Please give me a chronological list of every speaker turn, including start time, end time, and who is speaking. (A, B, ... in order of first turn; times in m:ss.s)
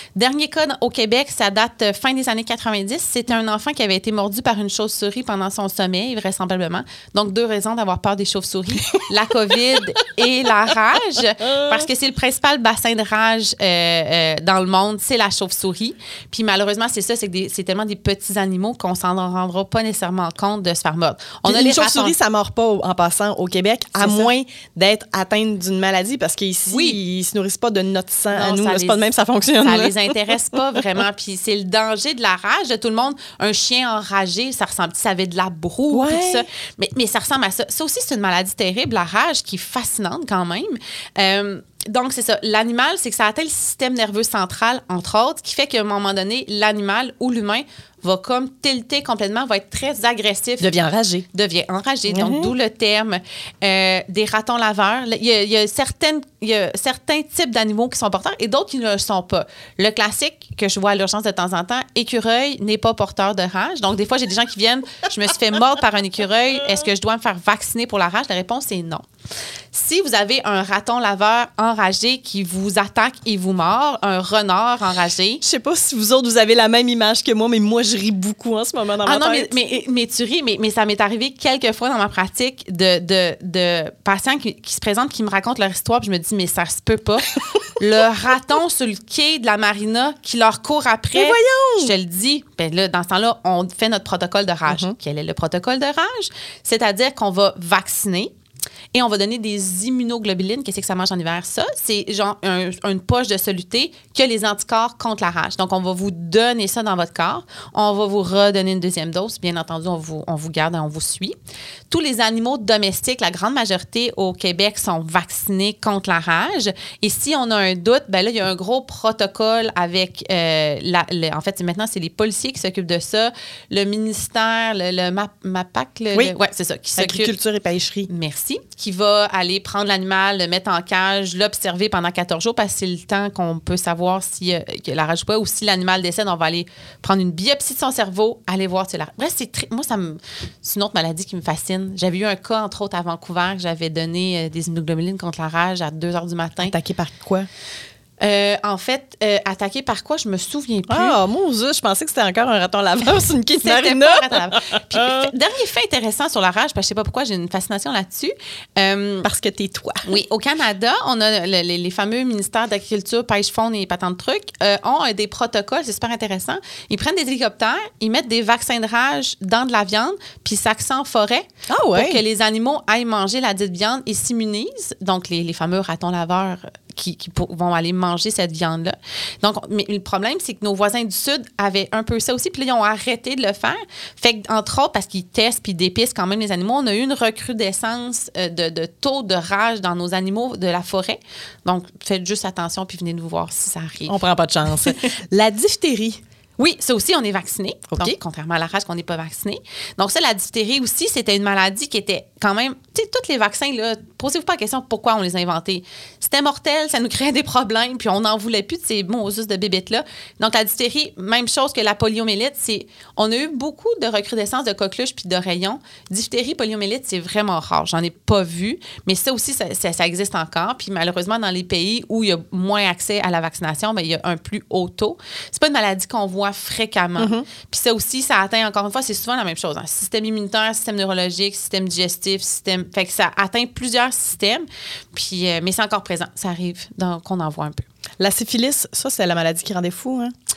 0:00.2-0:22.1 A
0:21.4-0:30.8 B
0:24.0-0:24.3 A
0:26.7-0:27.0 A
0:28.3-0:29.1 A
0:29.6-0:50.7 A
0:35.9-0:36.4 B
0:50.6-0:51.3 B
0:51.3-1:09.1 A
0:52.1-0:52.5 B
1:09.7-1:15.4 A
1:15.4-1:19.5 B
1:19.0-1:38.3 A
1:31.1-1:31.9 B
1:34.7-1:34.9 B
1:38.9-1:51.3 A
1:51.9-2:07.3 A
2:07.0-2:08.1 B
2:08.1-2:26.7 A
2:26.6-2:27.5 B
2:28.2-2:31.2 A
2:30.9-2:35.3 B
2:33.6-2:39.3 A
2:39.2-2:40.1 B
2:40.0-3:14.2 A
2:51.7-2:52.2 B
3:14.1-3:16.2 B
3:16.6-3:57.8 A
3:17.9-3:18.2 B
3:47.2-3:47.5 B
3:58.2-4:00.3 B